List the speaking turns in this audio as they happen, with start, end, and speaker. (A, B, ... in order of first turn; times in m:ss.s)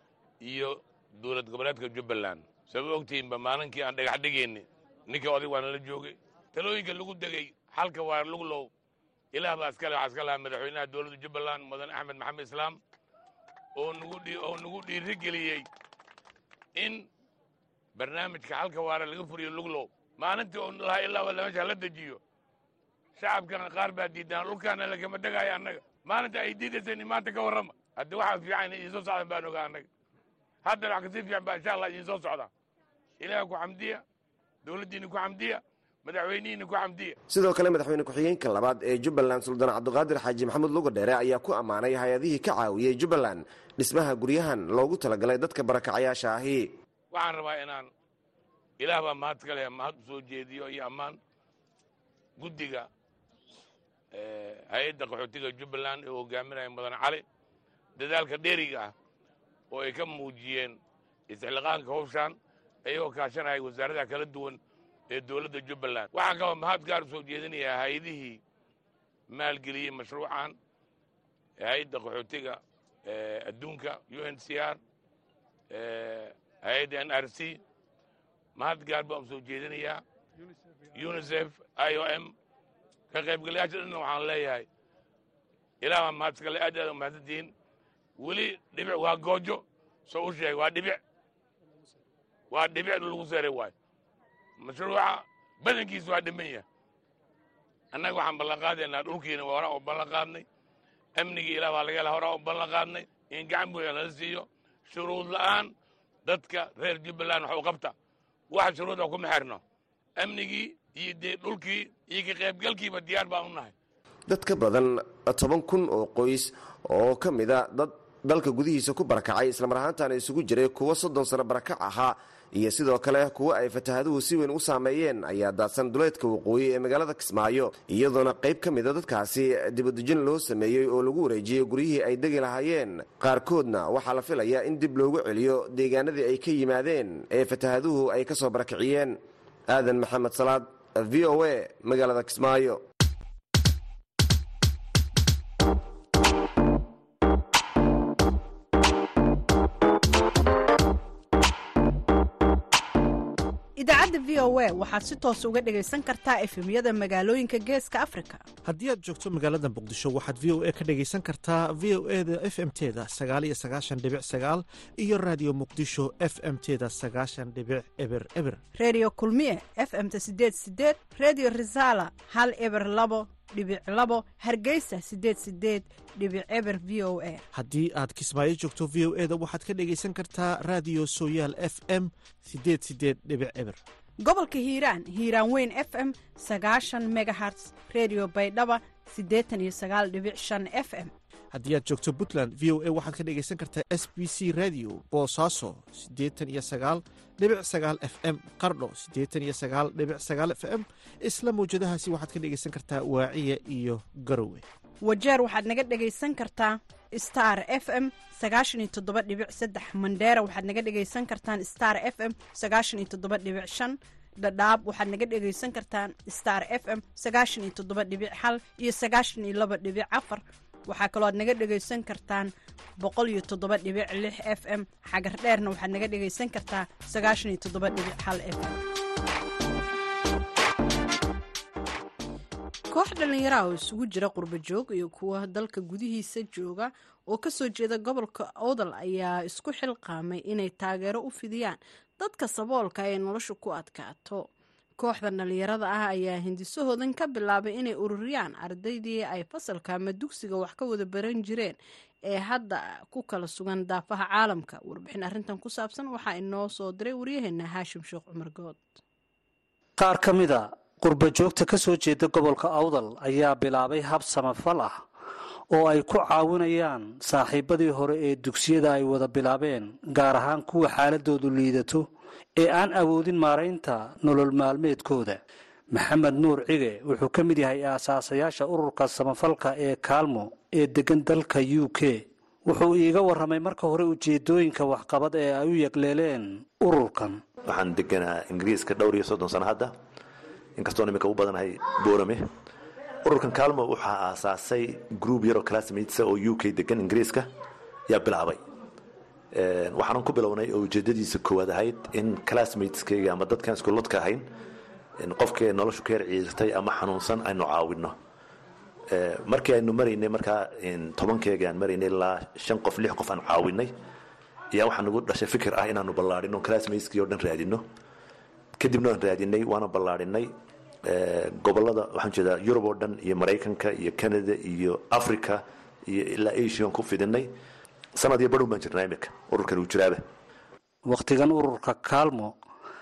0:00.4-0:08.7 A
0:09.3-0:12.8 A
0:13.8-0:15.6 A
0:16.8-0:17.0 A
0:18.0-0:22.2 A
0:23.2-0:29.9 A
0:30.6-0:32.5 A
0:33.2-0:34.0 A
0:34.6-0:37.1 A
0:37.3-0:46.7 B
0:47.1-0:47.9 A
0:48.8-0:51.2 A
0:52.4-0:52.9 A
0:54.1-0:57.2 A
0:58.0-0:58.9 A
0:59.7-1:00.8 A
1:01.3-1:04.6 A
1:05.1-1:08.4 A
1:09.3-1:10.5 A
1:11.6-1:14.8 A
1:15.7-1:17.6 A
1:18.6-1:20.0 A
1:20.9-1:22.3 A
1:23.1-1:24.6 A
1:25.8-1:27.5 A
1:28.2-1:31.0 A
1:32.5-1:33.7 A
1:34.6-1:36.6 A
1:37.9-1:40.4 A
1:41.2-1:45.7 A
1:46.2-1:47.9 A
1:48.5-1:49.6 A
1:50.2-1:53.7 A
1:54.3-2:19.2 B
2:19.7-2:22.8 B
2:33.8-2:38.4 C
2:38.6-2:48.6 D
2:48.7-2:57.4 C
2:57.5-3:03.8 D
3:04.2-3:11.1 C
3:11.5-3:24.6 D
3:25.0-3:48.8 C
3:52.9-4:04.5 C
4:05.0-4:19.0 C
4:20.0-4:25.0 E
4:25.7-4:35.4 E
4:35.9-4:47.4 E
4:47.6-4:49.9 F
4:50.8-4:52.4 F
4:53.2-4:57.5 F
4:58.1-4:58.6 F
4:59.5-5:04.4 F
5:05.2-5:08.2 F
5:09.1-5:13.9 F
5:14.7-5:17.8 F
5:18.8-5:20.5 F
5:21.0-5:27.5 F
5:28.2-5:30.2 F
5:31.0-5:32.5 E